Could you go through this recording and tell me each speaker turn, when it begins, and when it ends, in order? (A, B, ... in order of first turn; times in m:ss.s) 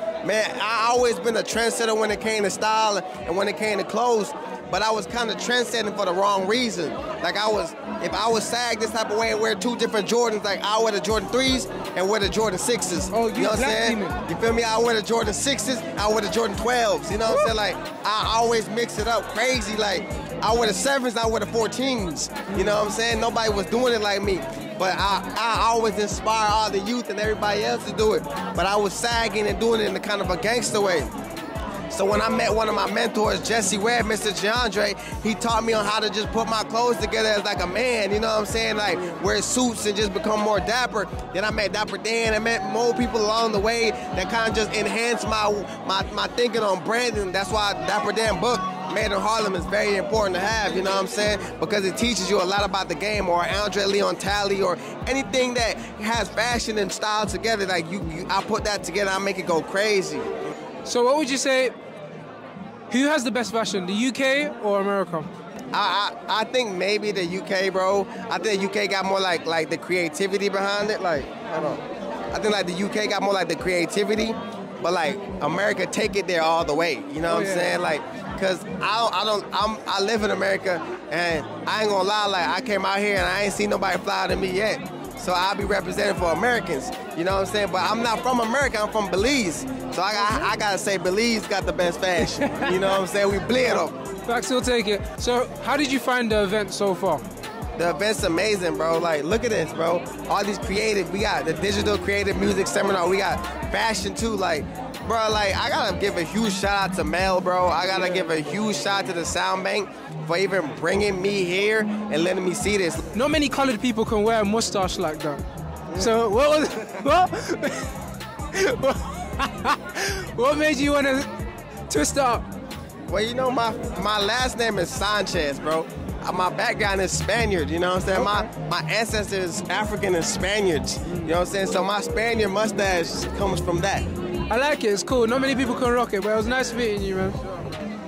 0:00.2-0:31.1 A
0:13.1-0:14.2 B
0:17.2-0:17.5 B
0:31.9-1:00.3 A
1:00.8-1:01.7 B
1:02.9-1:05.3 B
1:05.7-1:34.0 A
1:17.3-1:17.8 B
1:32.4-1:32.9 B
1:34.2-1:37.2 B
1:37.8-1:53.0 A
1:53.1-1:58.0 B
1:58.5-2:01.3 B
2:01.9-2:02.4 B
2:03.1-2:14.0 A
2:08.1-2:08.5 B
2:14.5-2:17.4 B